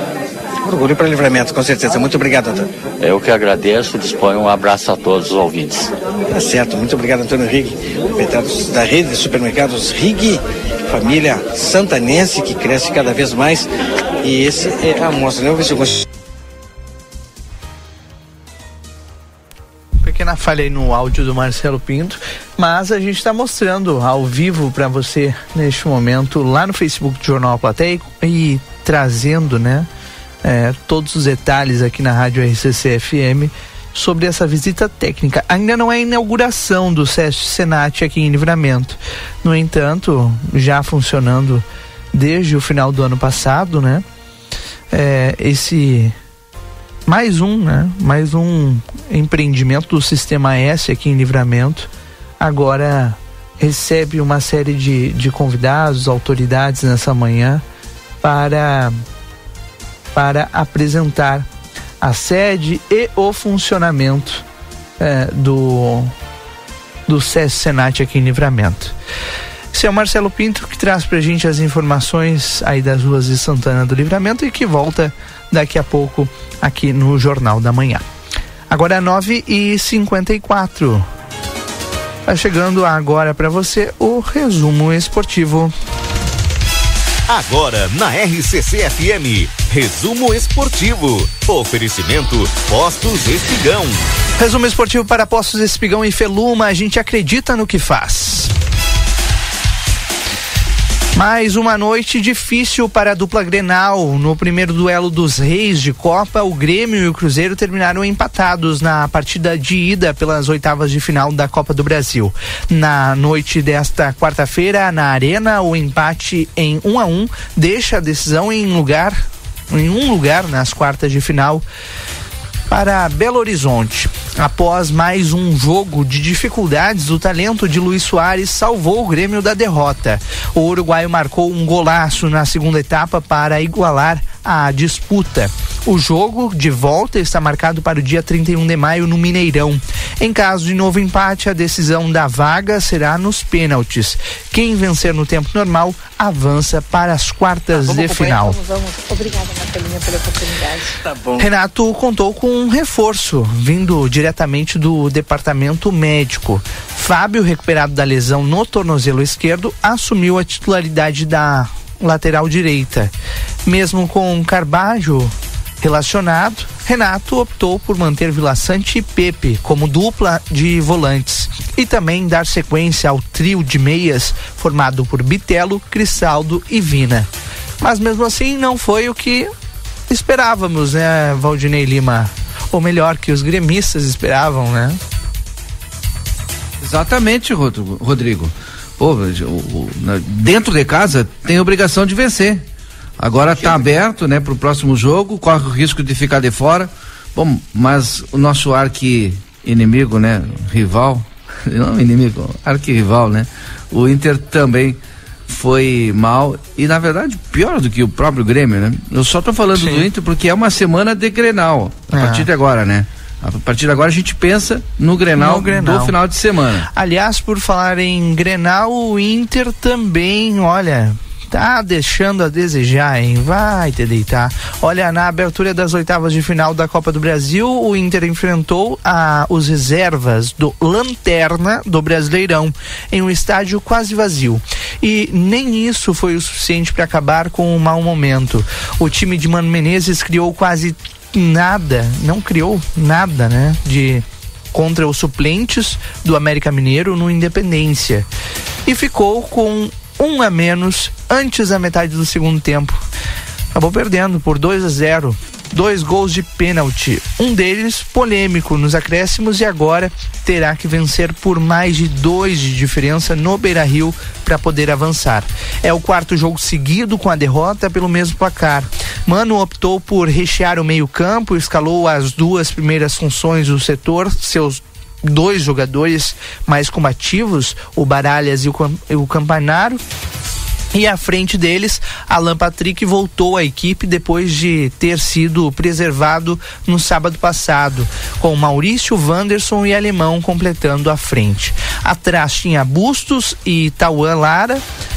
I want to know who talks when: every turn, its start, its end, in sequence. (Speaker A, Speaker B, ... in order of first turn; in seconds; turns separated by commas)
Speaker A: 0.6-2.7, Speaker B: 3.0-5.9, Speaker A: 6.3-13.7, Speaker A: 14.2-16.0, Speaker C: 20.0-29.9, Speaker C: 30.4-44.0, Speaker C: 44.9-46.1, Speaker C: 47.1-51.9, Speaker C: 52.4-57.6, Speaker C: 58.2-58.9, Speaker C: 60.1-61.5, Speaker C: 62.0-64.4, Speaker C: 65.0-66.1, Speaker C: 67.1-68.9, Speaker C: 69.7-78.0, Speaker C: 78.7-81.0, Speaker C: 82.2-85.7, Speaker D: 87.3-94.0, Speaker C: 94.4-98.5, Speaker C: 101.2-121.6, Speaker C: 122.7-148.6, Speaker A: 147.9-148.4, Speaker E: 148.4-150.8, Speaker A: 150.9-151.5, Speaker C: 151.4-163.1, Speaker C: 163.7-177.3, Speaker C: 177.8-179.5, Speaker C: 180.1-185.0, Speaker F: 186.8-192.6, Speaker F: 193.2-216.9, Speaker C: 209.8-210.0, Speaker C: 212.1-212.5, Speaker C: 215.4-216.1, Speaker C: 216.9-248.2, Speaker C: 248.8-253.0, Speaker C: 253.7-280.0, Speaker C: 280.9-294.8